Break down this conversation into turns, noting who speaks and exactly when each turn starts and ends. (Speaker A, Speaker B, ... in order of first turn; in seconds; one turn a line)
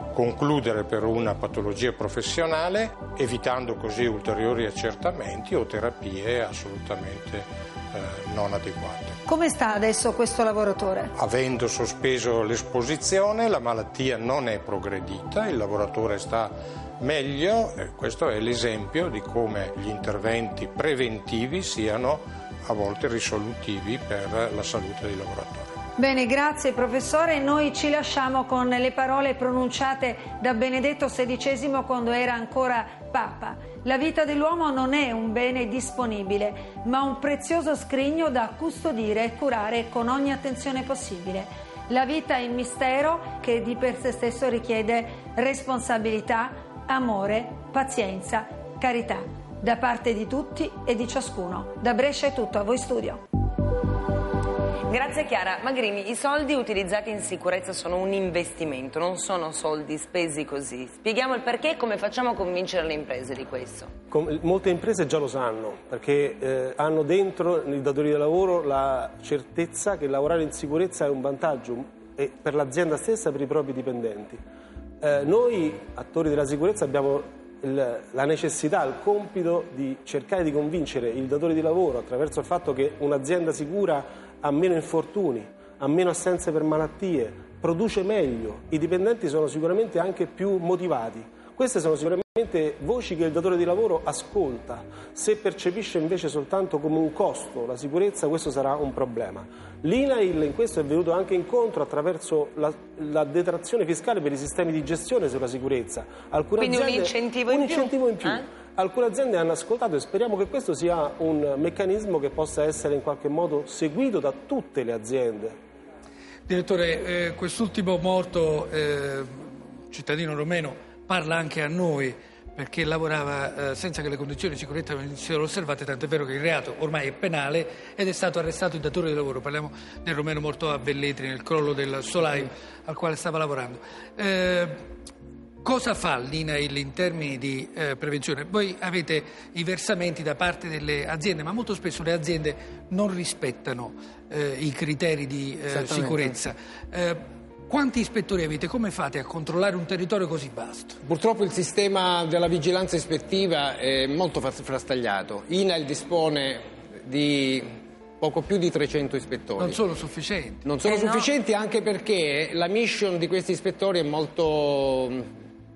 Speaker A: 0.1-9.2
Speaker B: 9.2-11.1
Speaker A: 11.2-25.8
Speaker B: 26.0-53.2
Speaker C: 54.9-63.9
Speaker D: 64.1-74.4
Speaker D: 75.0-115.5
Speaker C: 106.6-108.5
Speaker E: 116.5-134.7
Speaker E: 135.6-151.0
Speaker F: 145.7-146.4
Speaker F: 151.0-157.7
Speaker F: 158.2-159.8
Speaker E: 159.6-160.7
Speaker F: 160.6-165.3
Speaker C: 160.8-161.3